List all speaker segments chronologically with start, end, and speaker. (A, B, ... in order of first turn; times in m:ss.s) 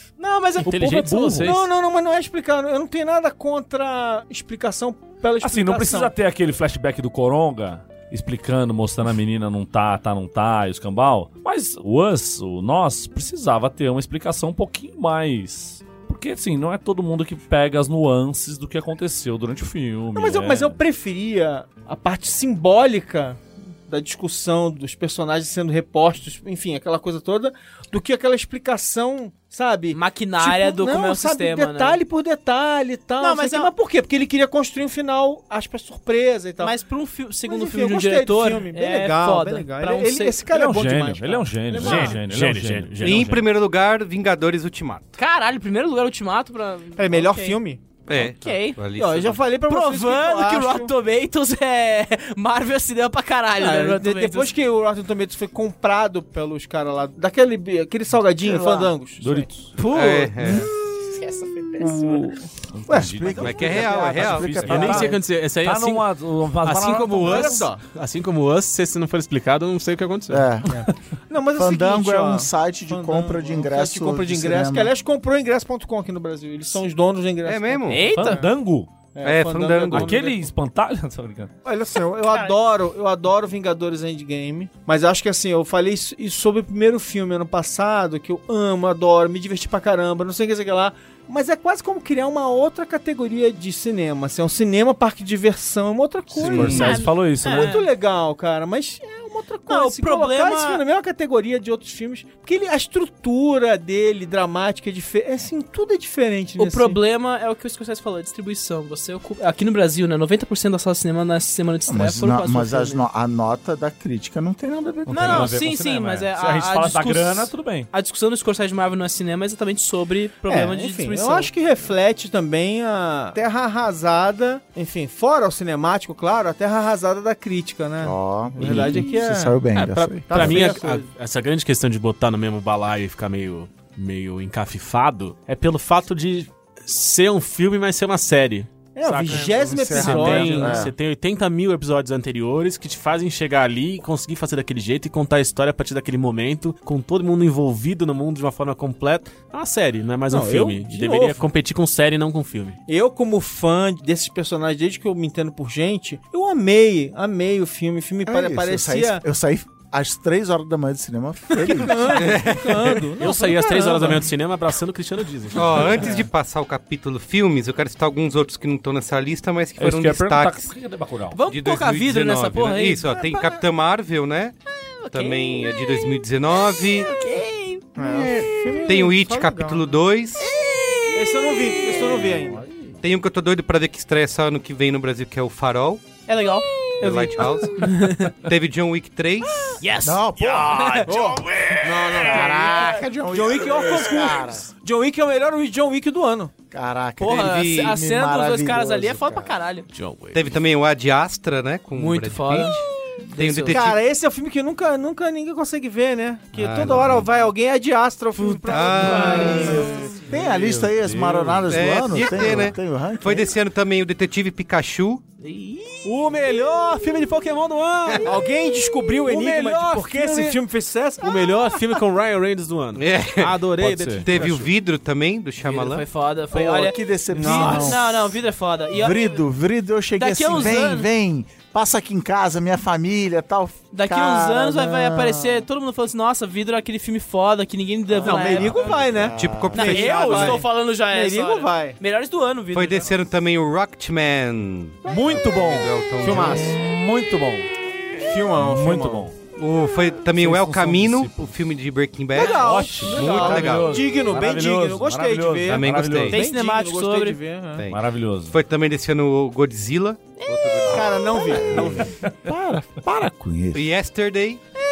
0:00.2-0:01.1 A
0:00.6-0:01.7 B
0:00.7-0:01.5 C
0:01.4-0:06.1 D
0:05.4-0:20.8 C
0:20.1-0:36.7 D
0:29.9-0:32.0 A
0:33.2-0:33.7 A
0:36.6-0:40.4 A
0:37.5-0:42.2 D
0:40.5-0:43.4 C
0:41.8-0:43.4 B
0:41.8-0:42.2 A
0:43.0-0:45.2 E
0:45.2-0:47.6 A
0:47.0-0:47.8 D
0:48.1-0:49.4 E
0:48.2-0:48.8 A
0:49.0-0:50.9 D
0:49.7-0:54.5 A
0:53.6-0:59.5 D
0:59.2-0:59.7 C
0:59.8-1:02.3 A
0:59.9-1:00.7 E
1:01.8-1:05.2 F
1:02.7-1:07.7 C
1:03.4-1:04.8 E
1:04.6-1:10.5 B
1:07.2-1:07.8 D
1:10.3-1:10.8 F
1:10.7-1:18.5 D
1:11.6-1:14.9 F
1:17.4-1:18.1 E
1:17.9-1:18.5 A
1:18.1-1:18.9 C
1:19.1-1:20.5 D
1:19.2-1:20.2 E
1:19.9-1:21.5 C
1:21.6-1:47.0 D
1:22.3-1:22.6 A
1:36.4-1:37.8 C
1:36.4-1:36.7 F
1:36.6-1:37.9 A
1:39.7-1:40.8 A
1:46.6-1:53.0 A
1:51.9-1:55.6 F
1:55.1-1:57.9 C
1:55.1-2:01.5 A
2:00.5-2:11.1 D
2:08.0-2:10.7 F
2:08.7-2:09.0 B
2:09.8-2:32.8 B
2:19.0-2:20.9 D
2:19.4-2:20.9 F
2:30.3-2:31.4 D
2:32.9-2:39.2 D
2:38.2-2:42.5 F
2:41.7-2:44.3 D
2:42.1-2:43.0 E
2:43.2-2:46.0 B
2:45.5-2:50.7 E
2:45.8-2:46.2 D
2:49.8-2:51.4 C
2:51.3-2:53.1 A
2:51.5-2:54.6 E
2:53.2-2:53.6 D
2:55.0-2:56.1 A
2:55.1-2:57.1 E
2:56.6-2:58.8 A
2:58.0-2:59.8 D
2:58.0-3:00.5 E
3:00.4-3:02.2 A
3:01.1-3:02.6 D
3:02.2-3:02.9 F
3:03.0-3:06.0 E
3:06.3-3:08.3 A
3:07.0-3:09.8 E
3:09.8-3:12.7 A
3:10.0-3:11.3 F
3:11.1-3:16.5 D
3:12.1-3:14.7 F
3:16.7-3:19.6 F
3:17.2-3:19.9 A
3:17.3-3:17.9 E
3:19.9-3:20.6 B
3:20.3-3:22.8 E
3:22.0-3:22.8 A
3:23.3-3:23.7 A
3:23.4-3:24.0 E
3:23.7-3:30.1 D
3:26.5-3:27.3 E
3:28.4-3:28.7 B
3:28.7-3:29.7 E
3:29.0-3:29.8 A
3:29.3-3:33.5 F
3:30.3-3:31.7 C
3:31.7-3:35.2 E
3:35.4-3:36.1 A
3:36.0-3:38.4 B
3:38.2-3:41.8 D
3:39.2-3:40.6 B
3:41.2-3:44.7 B
3:43.0-3:43.6 E
3:43.8-3:44.3 C
3:44.2-3:46.0 E
3:45.6-3:49.4 A
3:46.5-3:48.4 F
3:47.3-3:48.0 D
3:48.9-3:55.7 F
3:50.2-3:51.1 A
3:53.9-3:58.9 A
3:58.1-4:00.5 F
3:58.2-4:02.0 D
3:59.4-4:00.6 E
3:59.8-4:03.2 A
4:02.7-4:06.7 E
4:05.0-4:07.7 C
4:05.1-4:05.4 D
4:06.2-4:06.8 D
4:08.2-4:09.3 D
4:08.5-4:09.4 C
4:09.6-4:14.1 E
4:10.3-4:11.5 C
4:12.4-4:17.9 D
4:12.4-4:16.4 C
4:15.7-4:16.4 E
4:16.3-4:17.4 A
4:17.9-4:18.6 C
4:18.5-4:21.4 E
4:20.4-4:21.7 A
4:20.9-4:22.1 D
4:21.5-4:23.8 F
4:23.7-4:24.6 E